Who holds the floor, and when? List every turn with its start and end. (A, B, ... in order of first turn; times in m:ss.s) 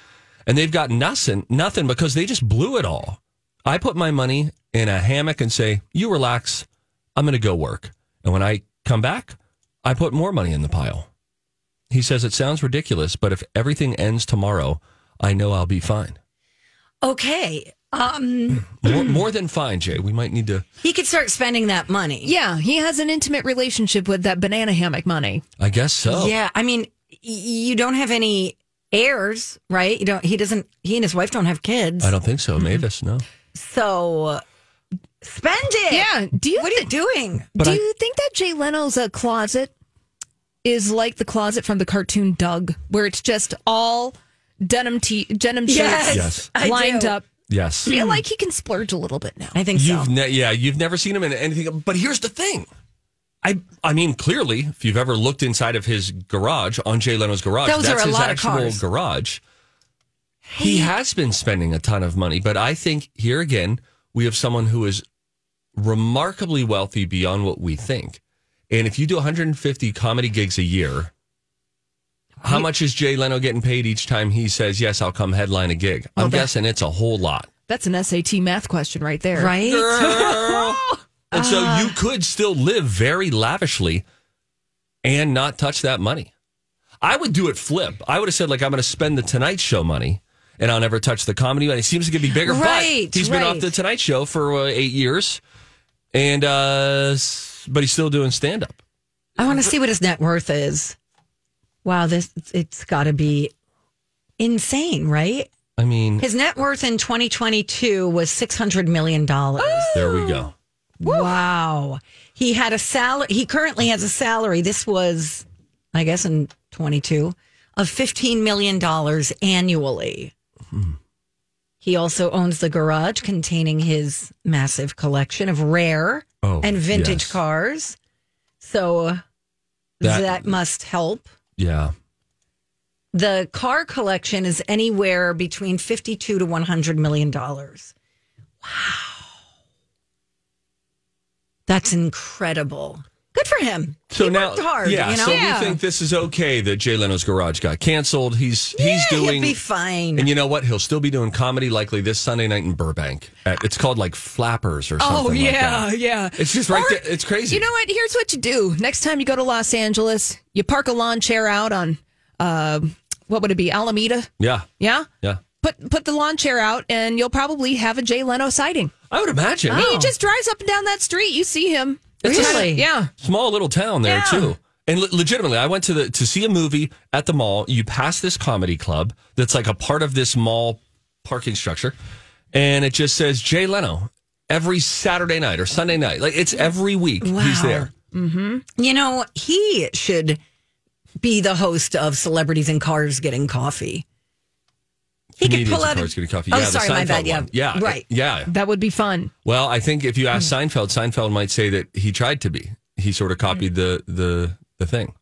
0:00.5-0:11.1 A
0:11.9-0:16.2 A
0:17.0-0:19.2 B
0:18.6-0:20.6 A
0:20.8-0:22.3 B
0:22.2-0:25.4 C
0:25.6-0:26.4 A
0:26.1-0:32.1 B
0:32.0-0:33.2 A
0:33.5-0:34.4 B
0:35.2-0:37.5 B
0:35.9-0:36.9 C
0:37.5-0:39.7 C
0:37.6-0:37.8 A
0:40.6-0:47.2 C
0:45.6-0:47.2 B
0:46.1-0:46.5 A
0:47.5-0:47.9 A
0:47.8-0:48.2 B
0:47.8-0:49.6 C
0:49.5-0:50.1 B
0:49.7-0:52.7 A
0:53.4-0:59.4 A
0:57.6-0:58.8 B
1:00.5-1:00.9 B
1:00.5-1:05.0 A
1:05.8-1:11.1 A
1:12.4-1:12.7 B
1:12.4-1:17.5 A
1:16.2-1:16.5 B
1:17.7-1:19.6 C
1:19.3-1:22.0 B
1:19.6-1:24.0 A
1:25.0-1:26.3 A
1:27.0-1:35.4 A
1:32.4-1:33.7 B
1:36.1-1:38.8 A
1:39.4-1:41.0 B
1:41.8-1:43.5 B
1:44.4-1:45.5 B
1:45.8-1:46.2 A
1:46.2-1:50.1 B
1:49.6-1:50.5 C
1:49.9-1:50.5 A
1:51.0-2:00.3 B
1:51.0-1:51.4 C
2:00.7-2:01.0 A
2:01.8-2:08.0 B
2:06.4-2:07.4 A
2:08.6-2:09.2 B
2:10.0-2:11.3 B
2:10.0-2:10.5 A
2:11.6-2:11.9 A
2:13.1-2:17.9 B
2:18.6-2:19.3 B
2:21.7-2:25.8 B
2:24.1-2:29.6 A
2:25.2-2:25.8 C
2:28.7-2:30.3 B
2:30.2-2:37.7 A
2:35.0-2:45.1 C
2:44.4-2:44.7 A
2:45.6-2:48.9 C
2:49.1-2:50.0 A
2:49.7-2:50.1 B
2:49.7-2:53.1 C
2:52.2-2:52.9 B
2:52.2-3:02.0 A
2:54.0-2:54.5 B
3:02.5-3:07.9 A
3:07.2-3:07.9 B
3:08.1-3:08.6 C
3:08.8-3:10.4 B
3:11.2-3:14.0 B
3:15.4-3:18.0 B
3:15.4-3:18.5 A
3:18.5-3:19.3 C
3:19.4-3:25.1 A